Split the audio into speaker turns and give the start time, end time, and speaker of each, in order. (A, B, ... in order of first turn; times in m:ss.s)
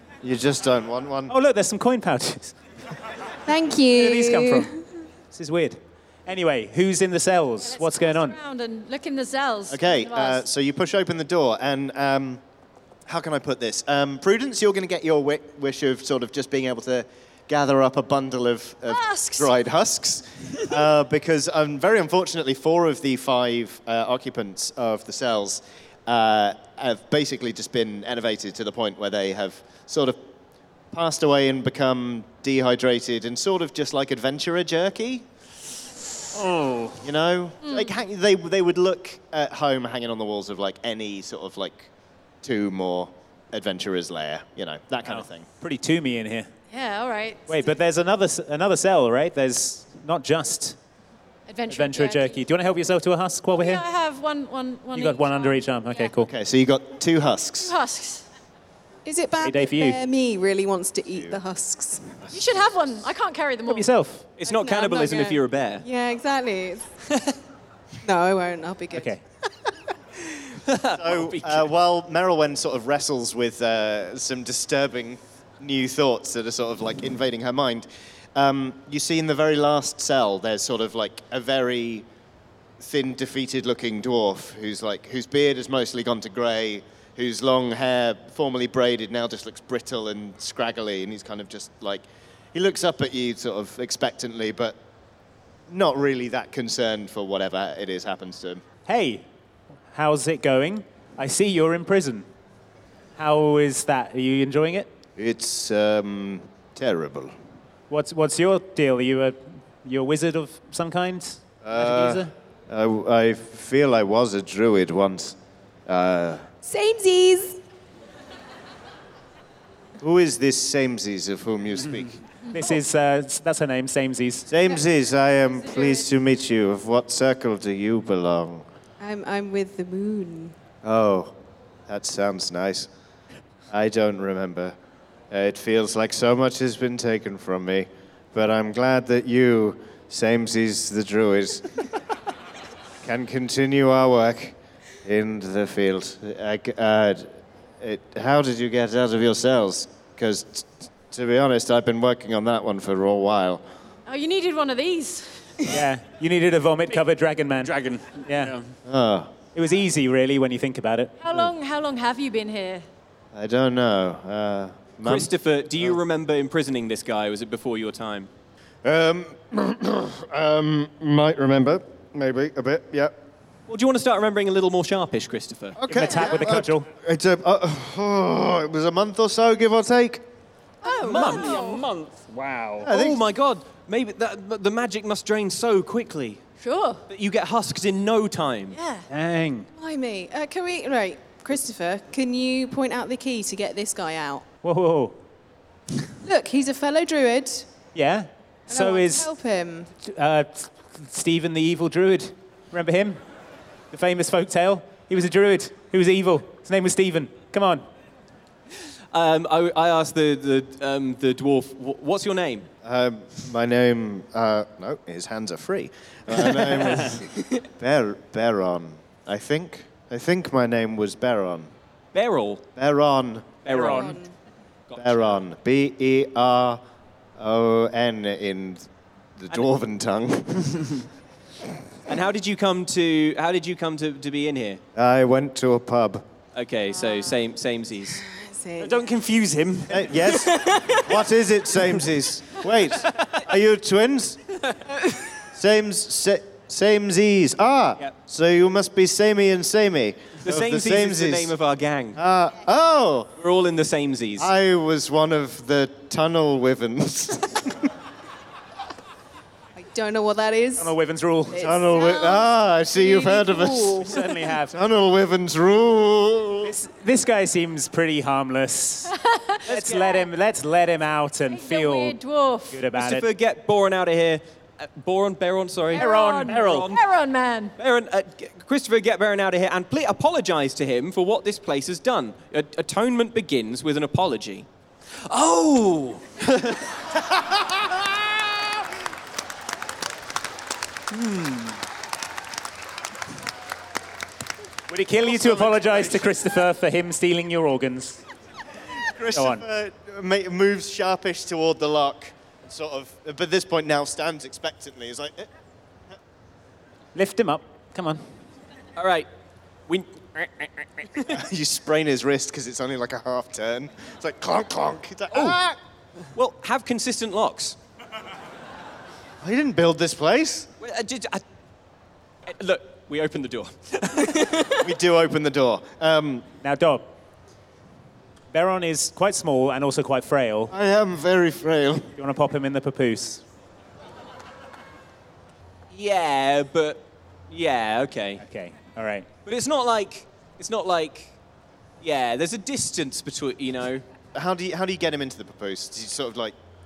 0:00.2-0:01.3 A
0:01.3-0:02.6 B
0:03.4-0:04.8 C
0:03.9-0:04.7 B
0:05.3-0:08.4 B
0:07.6-0:10.4 D
0:09.7-0:12.4 A
0:13.1-0:30.2 A
0:18.9-0:19.5 D
0:30.9-0:35.2 A
0:36.3-0:37.0 E
0:37.0-0:41.9 A
0:37.6-0:37.9 D
0:42.4-0:45.5 A
0:45.0-0:46.5 B
0:46.7-0:47.7 D
0:47.5-0:50.8 B
0:51.5-0:52.4 D
0:51.7-0:53.8 B
0:53.5-0:56.1 D
0:54.9-0:56.3 B
0:56.2-0:57.7 A
0:57.6-0:58.2 D
0:59.0-1:02.3 C
0:59.4-1:00.0 B
1:02.3-1:03.9 D
1:03.6-1:04.3 B
1:04.4-1:05.8 F
1:04.5-1:06.9 C
1:08.0-1:09.1 C
1:08.9-1:09.2 B
1:10.6-1:11.7 F
1:10.9-1:22.1 A
1:22.8-1:34.8 A
1:35.7-1:38.6 A
1:38.9-1:39.2 B
1:39.9-1:42.2 B
1:43.2-1:44.9 B
1:45.2-1:47.3 A
1:47.9-1:52.3 B
1:51.6-1:55.4 A
1:55.9-1:56.4 A
1:56.6-1:57.6 C
2:00.0-2:02.2 A
2:02.5-2:04.5 B
2:04.5-2:08.6 A
2:05.5-2:06.0 D
2:09.0-2:10.5 C
2:10.8-2:11.3 A
2:11.9-2:12.9 A
2:13.7-2:14.8 A
2:15.3-2:21.8 A
2:23.0-2:33.6 A
2:34.1-2:35.6 D
2:35.6-2:37.7 B
2:37.6-2:38.7 E
2:38.2-2:38.6 B
2:38.8-2:39.3 A
2:39.5-2:41.1 B
2:41.2-2:42.8 D
2:43.3-2:46.0 A
2:45.0-2:48.3 F
2:48.8-2:53.1 A
2:53.7-2:55.8 F
2:55.8-3:00.2 A
2:55.8-2:56.9 B
3:00.8-3:01.8 D
3:01.0-3:01.5 F
3:01.1-3:02.9 E
3:02.8-3:03.2 A
3:02.9-3:06.4 F
3:06.6-3:07.0 D
3:07.1-3:08.8 F
3:08.7-3:09.1 D
3:09.1-3:09.7 B
3:09.8-3:14.4 C
3:14.6-3:15.2 B
3:16.2-3:17.7 C
3:17.9-3:19.3 B
3:18.7-3:19.9 C
3:20.0-3:23.2 B
3:23.9-3:27.8 B
3:29.1-3:32.7 F
3:32.8-3:41.7 A
3:36.6-3:37.2 E
3:42.1-3:42.6 F
3:42.8-3:43.8 A
3:43.6-3:44.2 F
3:43.7-3:44.1 E
3:43.7-3:44.3 C
3:44.9-3:45.4 F
3:45.0-3:46.8 A
3:47.4-3:48.9 A
3:49.4-3:51.0 A
3:52.1-3:54.8 F
3:54.9-3:56.2 A
3:56.5-3:58.2 F
3:58.2-3:59.1 C
3:58.8-4:00.7 E
3:59.9-4:04.4 A
4:00.5-4:01.0 C
4:05.5-4:11.5 A
4:10.4-4:12.2 F
4:12.1-4:13.3 A
4:13.4-4:14.5 F
4:14.4-4:17.9 A
4:19.8-4:20.9 C
4:20.8-4:21.7 B
4:21.5-4:24.2 C
4:21.6-4:24.1 A
4:24.0-4:24.7 B
4:24.7-4:26.7 A
4:26.6-4:29.1 B
4:29.1-4:30.2 D
4:29.7-4:30.1 F
4:29.7-4:32.2 B
4:31.5-4:32.8 D
4:32.7-4:33.3 B
4:33.0-4:37.0 F
4:35.9-4:36.9 B
4:35.9-4:37.7 D
4:37.8-4:44.7 F
4:45.3-4:46.9 F
4:51.1-4:51.8 B
4:54.9-4:58.2 B
4:55.2-4:56.2 A
4:59.0-5:05.5 A
4:59.3-4:59.6 B
5:07.1-5:08.2 B
5:09.0-5:09.3 F
5:09.9-5:11.3 F
5:11.3-5:15.8 A
5:16.3-5:17.8 F
5:19.4-5:20.7 A
5:20.8-5:21.4 F
5:22.4-5:24.8 F
5:24.8-5:26.5 A
5:26.6-5:27.1 B
5:28.5-5:30.7 B
5:30.7-5:32.1 A
5:32.2-5:33.4 B
5:35.9-5:38.4 F
5:38.4-5:39.3 B
5:39.4-5:41.3 F
5:42.0-5:44.0 F
5:44.3-5:46.5 A